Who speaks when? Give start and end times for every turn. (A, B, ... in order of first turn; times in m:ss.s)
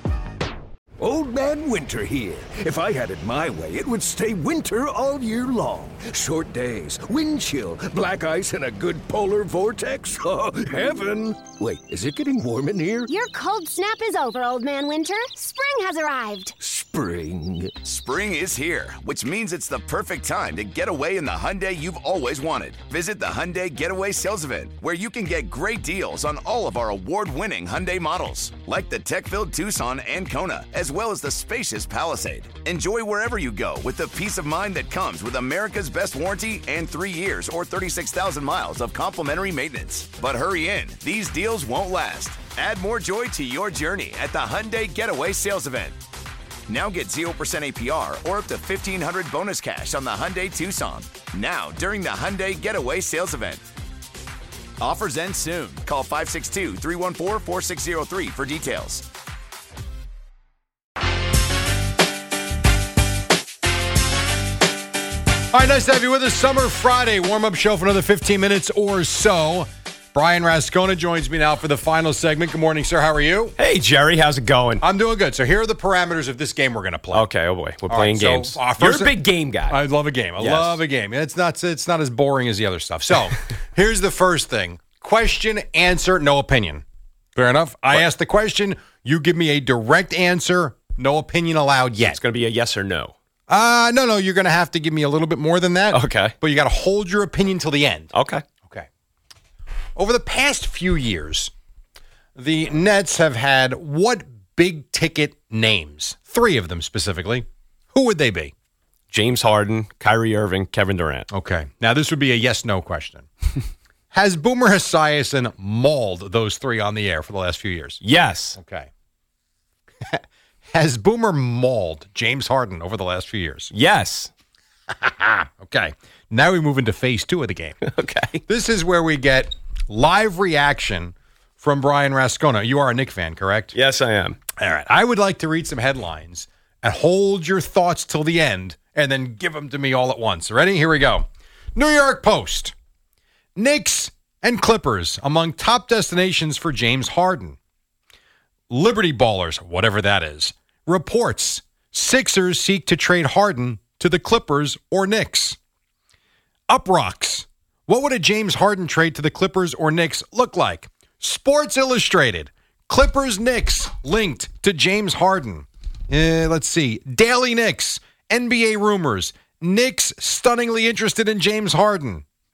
0:01.0-0:13.0 A
0:13.0-0:16.5 B
0:16.6-0:17.8 A
0:17.8-0:46.0 C
0:46.7-0:53.6 C
0:54.8-0:59.0 C
1:05.5-1:13.6 D
1:13.6-1:14.8 E
1:14.8-1:17.3 D
1:17.1-1:19.8 E
1:17.9-1:26.8 D
1:20.4-1:20.8 E
1:27.3-1:32.2 D
1:32.0-1:33.1 E
1:33.5-1:38.1 D
1:35.9-1:36.3 E
1:38.1-1:38.4 E
1:40.0-1:41.5 D
1:42.4-1:48.5 D
1:49.1-1:51.3 E
1:51.3-1:53.3 D
1:54.1-1:58.0 D
1:58.0-1:58.6 E
1:58.6-1:58.9 D
2:00.7-2:03.7 D
2:03.7-2:04.3 E
2:05.0-2:07.8 D
2:07.8-2:08.4 E
2:08.5-2:13.8 D
2:13.7-2:14.4 E
2:14.6-2:22.7 D
2:23.6-2:27.6 D
2:28.7-2:35.6 D
2:36.7-2:52.2 D